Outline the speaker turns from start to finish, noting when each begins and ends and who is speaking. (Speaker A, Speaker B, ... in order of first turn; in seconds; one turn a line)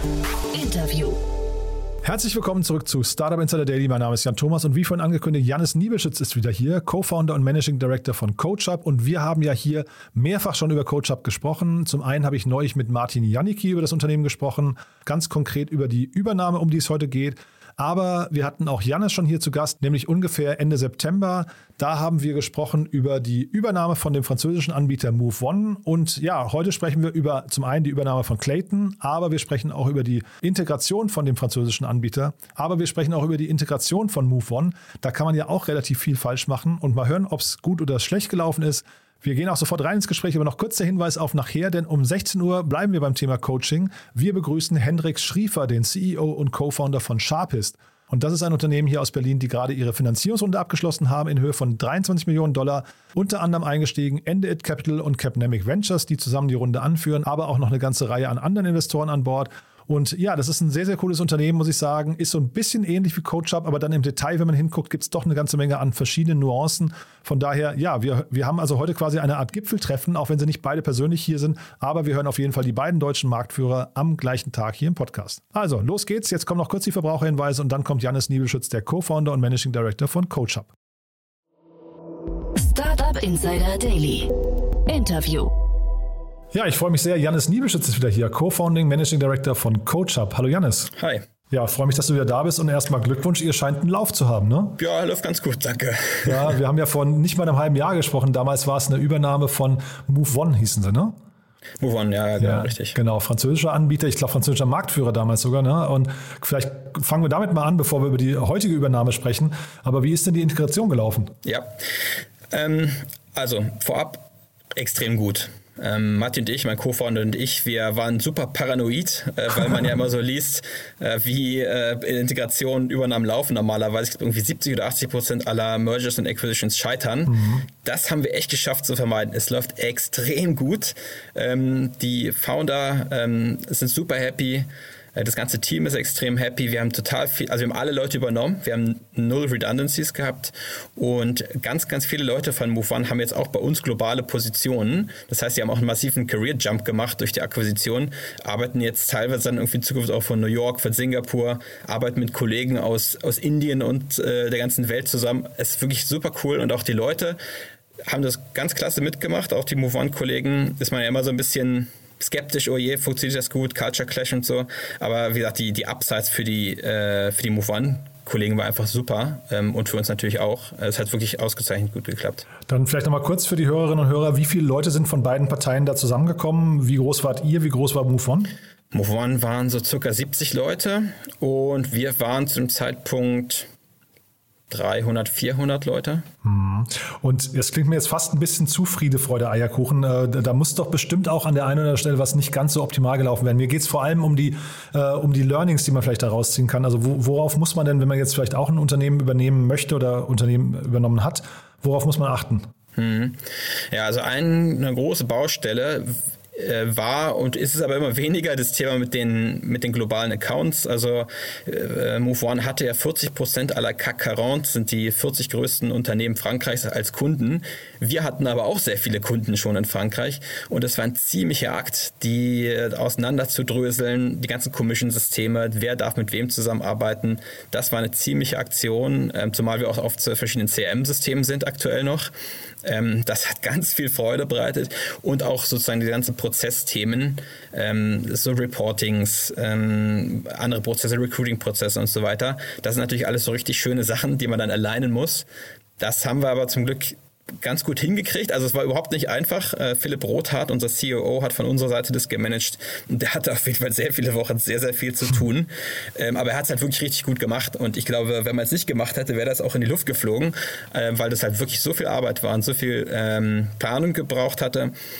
Speaker A: 0.5-1.2
Speaker B: 2.0-80.7
Speaker A: 82.6-84.3
Speaker A: 84.9-85.5
Speaker B: 86.5-90.9
Speaker C: 91.0-91.2
Speaker B: 91.5-94.8
Speaker C: 94.8-96.5
Speaker B: 96.2-101.2
Speaker C: 101.8-103.0
Speaker B: 102.4-111.3
Speaker C: 111.4-111.7
Speaker C: 112.5-114.2
Speaker C: 114.8-157.4
Speaker B: 127.3-127.7
Speaker C: 158.1-172.5
Speaker B: 172.7-178.5
Speaker C: 178.9-183.7
Speaker C: 184.7-186.3
Speaker B: 186.4-202.7
Speaker C: 203.0-232.3
Speaker C: 232.8-245.5
Speaker C: 246.0-264.9